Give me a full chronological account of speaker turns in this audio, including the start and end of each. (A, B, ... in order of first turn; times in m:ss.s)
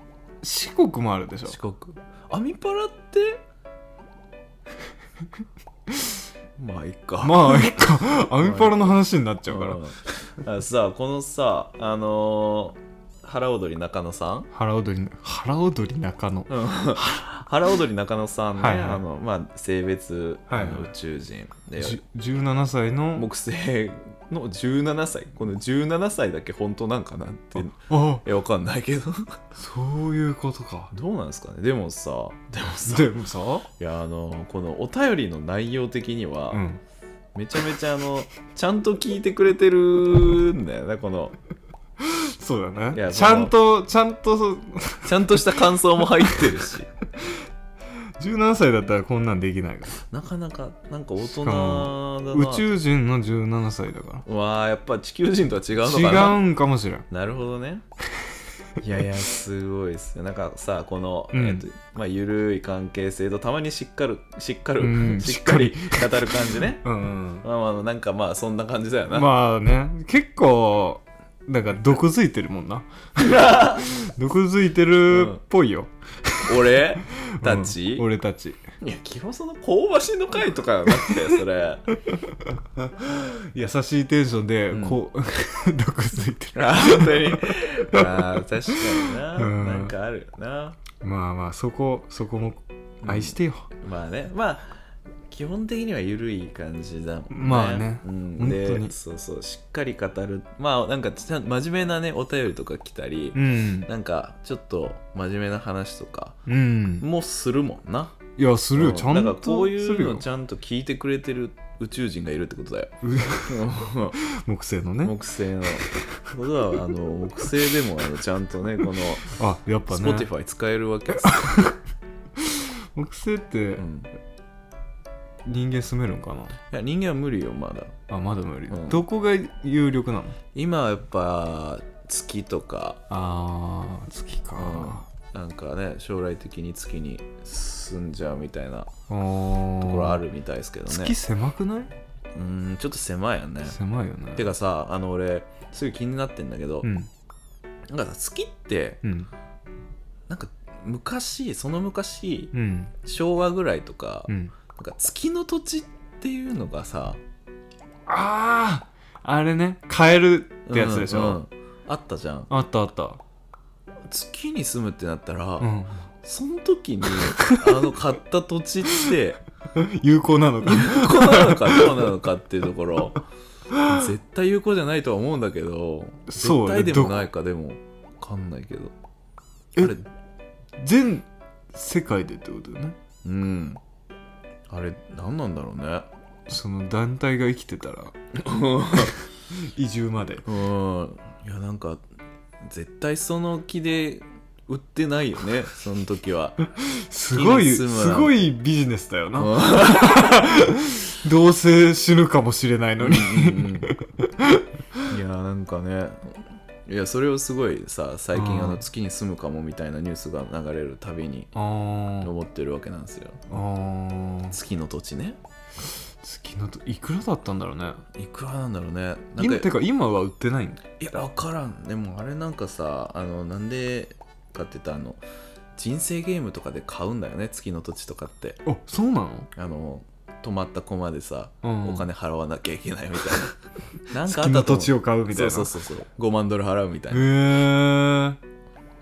0:00.4-0:01.6 A
0:01.5-0:03.4 B
0:06.6-0:07.8 B
0:07.2-0:09.8 A
0:08.4-0:14.5 B
0:14.5-0:17.2 A
0:16.5-0:22.0 B
0:18.6-0:19.0 A
0:20.5-0:20.9 A
0:21.8-0:23.3 A
0:23.2-0:29.4 B
0:27.6-0:28.2 A
0:29.6-0:30.9 A
0:30.9-0:33.2 B
0:32.9-0:33.7 A
0:33.8-0:36.6 B
0:36.5-0:36.8 A
0:37.4-0:41.4 B
0:42.0-0:46.4 A
0:42.9-0:43.5 B
0:45.0-0:46.9 B
0:48.2-0:50.0 A
0:50.1-0:52.7 B
0:51.2-0:54.2 A
0:54.3-0:56.4 B
0:55.8-0:57.1 A
0:57.1-0:57.8 B
0:58.8-1:06.9 B
1:01.3-1:01.7 A
1:04.8-1:07.5 A
1:07.4-1:09.3 B
1:09.1-1:18.6 A
1:13.2-1:13.9 B
1:15.1-1:15.4 B
1:16.4-1:18.1 B
1:18.8-1:22.0 B
1:22.1-1:29.9 A
1:24.7-1:25.0 B
1:26.6-1:30.8 B
1:31.0-1:33.7 A
1:33.0-1:46.4 B
1:37.3-1:39.0 A
1:43.3-1:43.9 A
1:46.5-1:47.1 A
1:47.0-1:48.2 B
1:48.4-1:50.2 A
1:48.8-1:54.2 B
1:53.0-1:55.2 A
1:55.0-1:59.4 B
1:59.2-2:00.3 A
1:59.9-2:01.8 B
2:01.2-2:01.8 A
2:02.4-2:03.9 A
2:03.8-2:04.1 B
2:05.4-2:06.6 A
2:06.7-2:08.0 B
2:08.1-2:10.4 A
2:08.7-2:09.0 B
2:10.5-2:13.0 B
2:13.1-2:15.0 A
2:14.6-2:18.9 B
2:19.1-2:20.2 A
2:19.8-2:21.2 B
2:20.9-2:21.9 A
2:22.4-2:23.8 B
2:23.7-2:24.5 A
2:24.4-2:26.9 B
2:26.8-2:27.1 A
2:27.9-2:29.0 B
2:29.0-2:29.3 A
2:30.3-2:37.2 B
2:32.5-2:32.9 A
2:34.3-2:34.5 A
2:38.1-2:41.4 A
2:40.7-2:42.5 B
2:42.5-2:43.2 A
2:44.1-2:45.7 B
2:45.6-2:46.0 A
2:46.2-2:49.4 B
2:47.2-2:47.7 A
2:49.8-2:52.1 A
2:50.6-2:53.2 B
2:53.7-2:54.0 A
2:53.8-2:58.9 B
2:56.3-2:57.3 A
2:59.8-3:00.0 B
3:00.8-3:03.0 A
3:03.2-3:03.8 B
3:04.7-3:06.1 B
3:06.5-3:08.2 A
3:08.4-3:09.2 B
3:08.9-3:10.5 A
3:10.4-3:12.1 B
3:12.6-3:16.6 B
3:16.8-3:25.0 A
3:17.3-3:18.5 B
3:19.4-3:20.4 B
3:23.0-3:23.9 B
3:25.1-3:31.5 B
3:28.3-3:28.8 A
3:31.6-3:32.3 A
3:32.2-3:33.5 B
3:33.5-3:34.6 A
3:34.5-3:35.4 B
3:36.2-3:38.0 A
3:38.2-3:39.7 B
3:39.4-3:40.8 A
3:41.0-3:45.2 B
3:45.8-3:48.6 B
3:48.7-3:49.5 A
3:49.6-3:53.6 B
3:51.6-3:52.1 A
3:54.1-3:57.4 B
3:54.2-3:55.7 A
3:57.1-3:58.4 A